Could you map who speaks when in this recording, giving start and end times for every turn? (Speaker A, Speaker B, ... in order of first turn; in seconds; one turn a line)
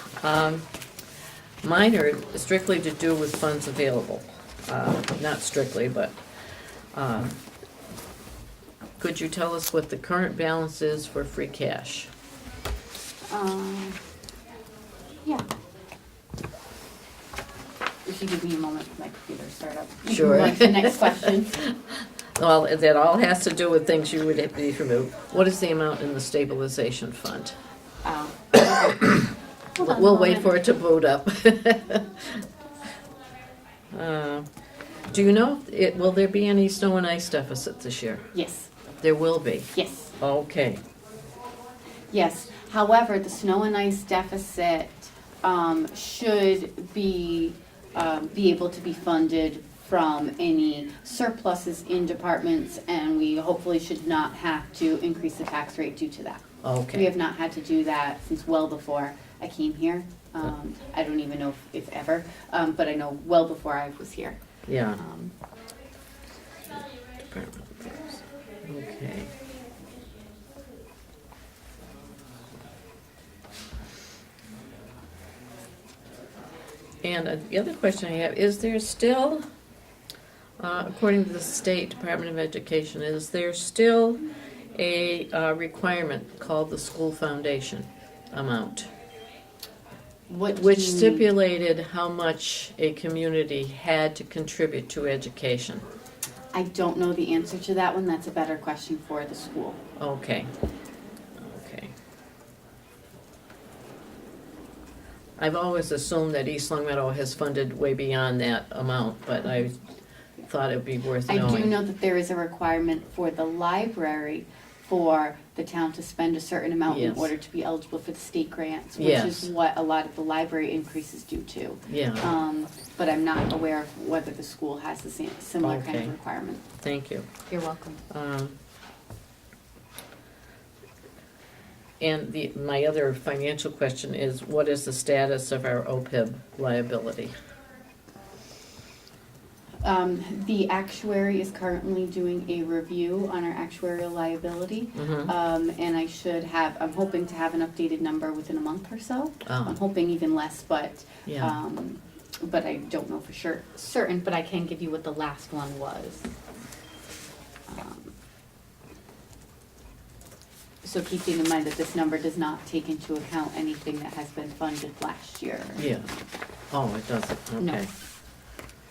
Speaker A: 0.2-0.6
Speaker A: 1.6-6.1
Speaker A: 6.9-7.4
Speaker A: 9.0-12.1
Speaker B: 13.3-14.0
Speaker B: 15.2-15.5
Speaker B: 18.0-21.6
Speaker A: 20.1-21.7
Speaker A: 22.3-27.6
Speaker B: 28.0-30.6
Speaker A: 29.8-32.4
Speaker A: 33.9-34.5
Speaker A: 35.1-38.3
Speaker B: 38.3-38.7
Speaker A: 39.0-40.8
Speaker B: 39.7-40.1
Speaker B: 42.1-56.4
Speaker A: 56.6-57.1
Speaker B: 56.9-64.4
Speaker A: 64.7-65.0
Speaker B: 64.9-65.3
Speaker A: 66.7-69.3
Speaker A: 77.0-79.4
Speaker A: 80.6-84.2
Speaker A: 84.7-88.9
Speaker B: 90.3-91.3
Speaker A: 90.5-95.8
Speaker B: 96.5-99.8
Speaker A: 100.0-100.5
Speaker A: 101.4-101.9
Speaker A: 105.4-109.8
Speaker A: 110.4-111.8
Speaker B: 111.2-126.6
Speaker A: 116.9-117.3
Speaker A: 119.0-119.5
Speaker A: 121.9-122.3
Speaker A: 125.6-126.1
Speaker A: 126.8-127.3
Speaker B: 127.5-128.0
Speaker A: 128.1-128.6
Speaker A: 132.0-137.3
Speaker B: 139.8-156.3
Speaker A: 144.9-145.3
Speaker A: 149.4-149.8
Speaker A: 151.2-151.6
Speaker B: 157.7-158.1
Speaker B: 160.8-165.9
Speaker A: 165.8-166.1
Speaker A: 166.7-167.9
Speaker B: 167.6-167.8